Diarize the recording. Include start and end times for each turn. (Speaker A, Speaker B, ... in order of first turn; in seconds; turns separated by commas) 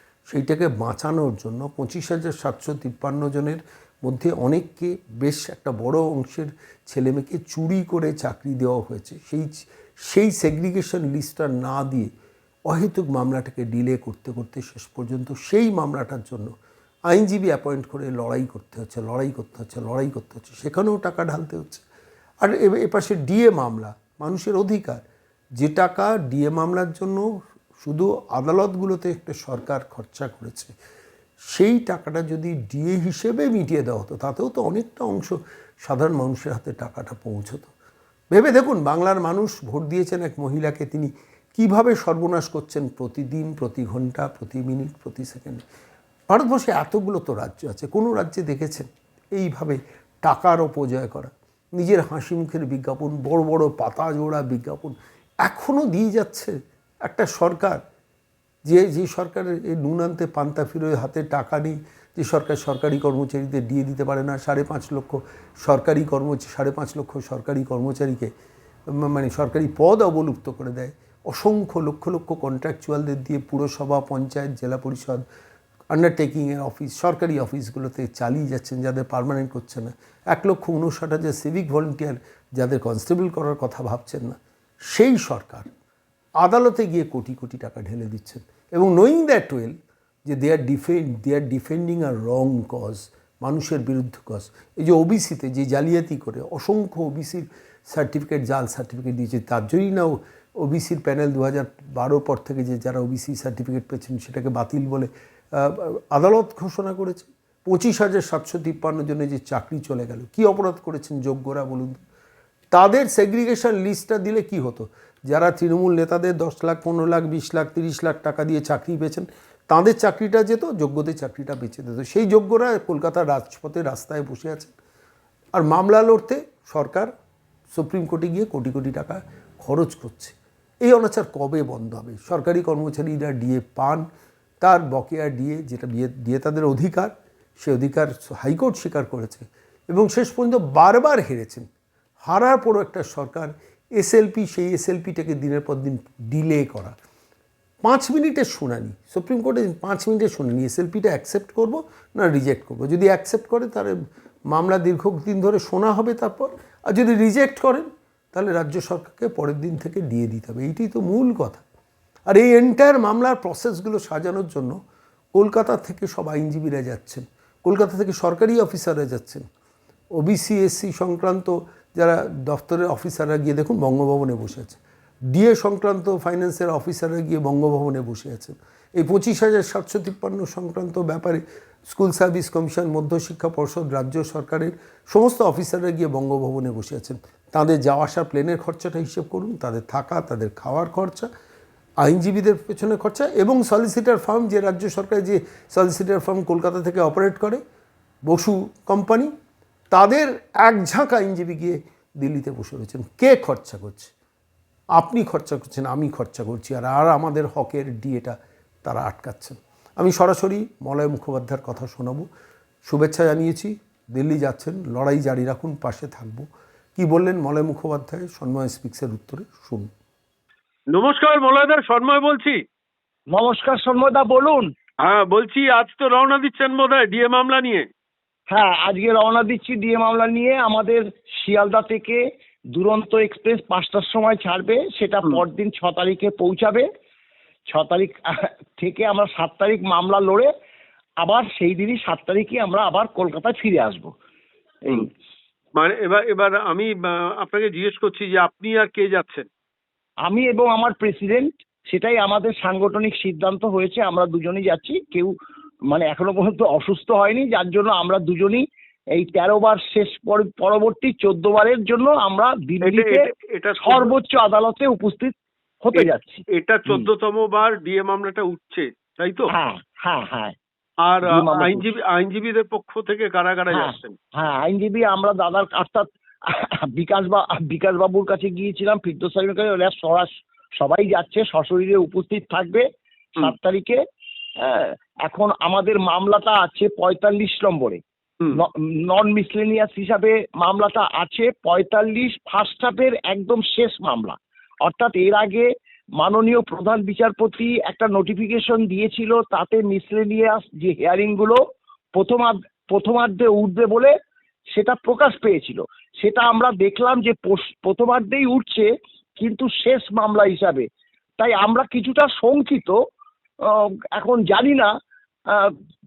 Speaker A: 0.3-9.5, Speaker A: 10.1-12.1, Speaker A: 12.7-16.5, Speaker A: 17.1-21.8, Speaker A: 22.4-25.0, Speaker A: 25.6-27.2, Speaker A: 27.8-30.7, Speaker A: 31.5-37.7, Speaker A: 38.3-45.6, Speaker A: 46.3-56.5, Speaker A: 57.0-57.8, Speaker A: 58.7-68.3, Speaker A: 68.9-75.2, Speaker A: 75.9-84.4, Speaker A: 84.9-85.7, Speaker A: 86.4-112.0, Speaker A: 112.7-124.7, Speaker A: 125.5-127.1, Speaker A: 127.7-134.1, Speaker A: 134.6-141.7, Speaker A: 142.2-146.9, Speaker A: 147.8-153.9, Speaker A: 154.5-161.6, Speaker A: 162.3-164.8, Speaker A: 165.3-169.4, Speaker A: 170.2-174.8, Speaker A: 175.3-191.3, Speaker A: 192.0-197.6, Speaker A: 198.3-199.3, Speaker A: 199.9-204.1, Speaker A: 205.0-212.2, Speaker A: 212.9-219.9, Speaker B: 220.9-222.6, Speaker C: 223.3-224.6, Speaker B: 225.0-227.9, Speaker C: 228.5-232.2, Speaker C: 232.7-236.8, Speaker C: 237.7-238.1, Speaker C: 238.8-240.5, Speaker C: 241.2-244.1, Speaker B: 245.8-249.5, Speaker C: 250.2-255.3, Speaker C: 255.9-258.6, Speaker C: 259.2-263.3, Speaker B: 262.8-264.1, Speaker C: 263.8-267.1, Speaker B: 265.9-269.5, Speaker C: 269.5-270.5, Speaker B: 271.1-274.1, Speaker C: 271.2-271.9, Speaker C: 273.7-282.8, Speaker C: 283.4-284.0, Speaker C: 284.6-288.0, Speaker C: 288.6-295.7, Speaker C: 296.2-301.6, Speaker C: 302.1-304.1, Speaker C: 304.7-310.9, Speaker C: 311.4-313.0, Speaker C: 314.1-314.9